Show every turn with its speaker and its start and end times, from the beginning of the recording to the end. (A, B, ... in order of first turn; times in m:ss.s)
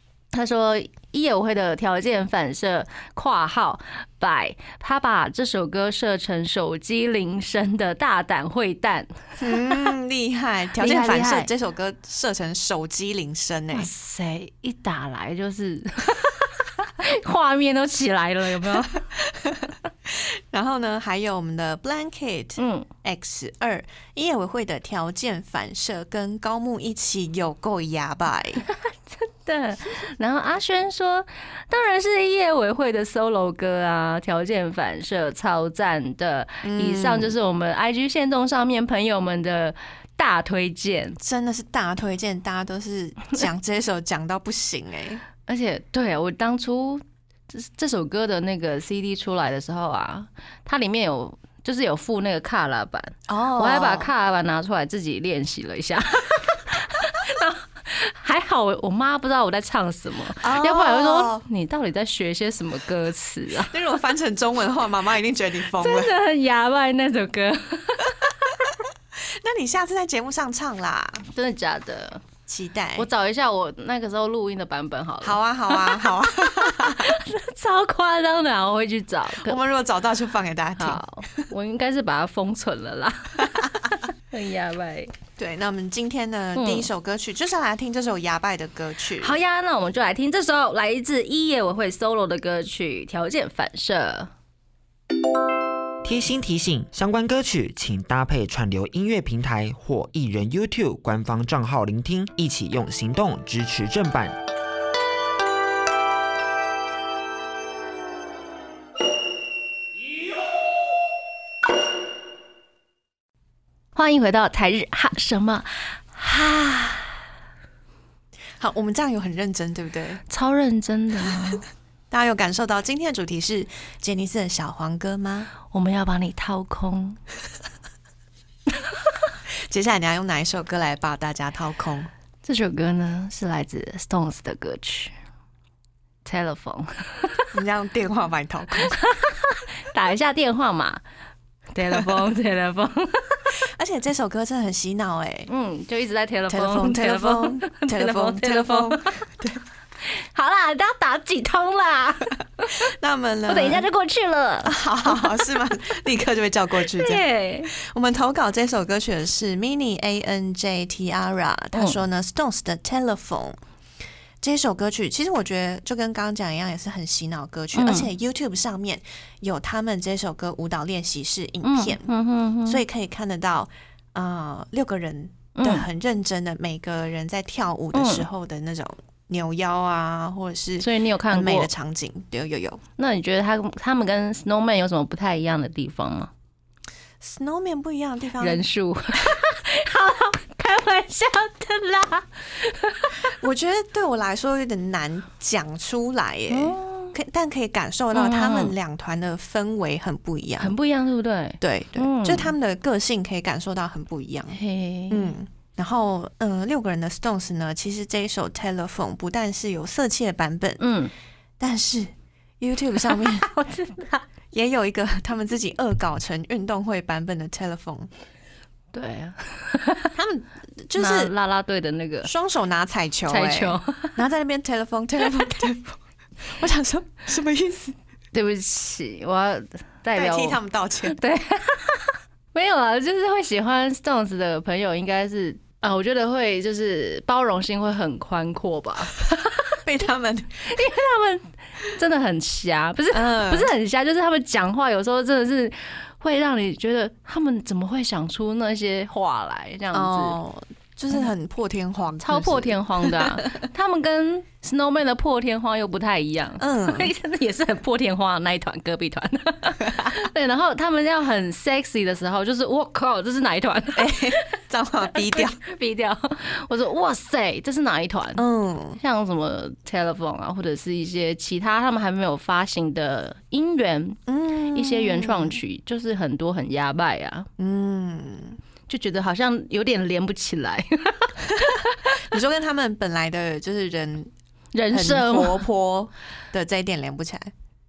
0:00.3-0:09.7 A
0:09.4-0:13.9 B
0:10.8-0:11.5 A
0:13.7-0:19.0 A
0:18.6-0:28.6 B
0:22.6-0:22.9 A
0:28.7-0:41.2 A
0:36.6-0:37.3 B
0:41.2-0:45.2 B
0:45.5-1:03.7 A
0:53.3-0:54.1 B
1:00.4-1:01.4 B
1:03.6-1:06.1 B
1:05.8-1:08.6 A
1:09.1-1:11.2 B
1:11.3-1:12.2 A
1:12.4-1:13.1 B
1:13.0-1:19.6 A
1:15.2-1:17.2 B
1:19.4-1:21.4 B
1:20.8-1:25.1 A
1:23.4-1:23.8 B
1:25.4-1:29.4 B
1:26.5-1:26.9 A
1:29.2-1:34.3 A
1:36.0-1:44.4 C
1:53.9-1:57.1 A
1:58.6-2:00.2 B
2:00.3-2:01.6 A
2:02.1-2:05.5 B
2:05.7-2:07.2 A
2:09.7-2:12.1 B
2:12.4-2:15.1 A
2:16.2-2:17.5 A
2:17.5-2:19.0 B
2:18.9-2:21.0 A
2:21.7-2:23.5 A
2:23.6-2:25.5 B
2:25.5-2:29.2 A
2:26.5-2:29.6 B
2:30.0-2:32.9 A
2:32.8-2:33.9 B
2:33.5-2:35.5 A
2:34.6-2:43.6 B
2:36.8-2:37.7 A
2:44.4-2:52.1 B
2:47.7-2:48.1 A
2:51.6-2:52.8 A
2:52.6-3:02.8 B
2:55.6-2:55.8 A
2:57.9-2:58.2 A
3:00.8-3:01.7 A
3:03.0-3:06.3 A
3:07.2-3:08.6 B
3:08.4-3:13.2 A
3:13.3-3:20.7 B
3:16.5-3:17.1 A
3:18.1-3:18.7 A
3:20.6-3:22.5 A
3:21.6-3:24.6 B
3:24.5-3:25.3 A
3:25.1-3:30.8 B
3:30.8-3:31.1 A
3:31.6-3:33.5 B
3:33.1-3:34.2 A
3:34.5-3:38.1 B
3:38.9-3:40.1 A
3:40.1-3:41.3 B
3:41.0-3:42.3 A
3:42.2-3:48.0 B
3:43.3-3:44.2 A
3:48.3-3:59.2 A
3:50.1-3:51.2 B
3:59.8-4:00.7 B
4:00.7-4:10.4 A
4:03.1-4:03.7 B
4:09.9-4:13.5 B
4:12.2-4:24.4 A
4:16.6-4:17.1 B
4:24.0-4:25.6 B
4:25.2-4:28.4 A
4:28.4-4:29.0 B
4:29.0-4:34.2 A
4:34.3-4:35.6 B
4:34.7-4:37.5 A
4:37.6-4:38.6 B
4:38.9-4:42.2 A
4:41.6-4:44.3 B
4:44.7-4:45.6 A
4:44.9-4:47.5 B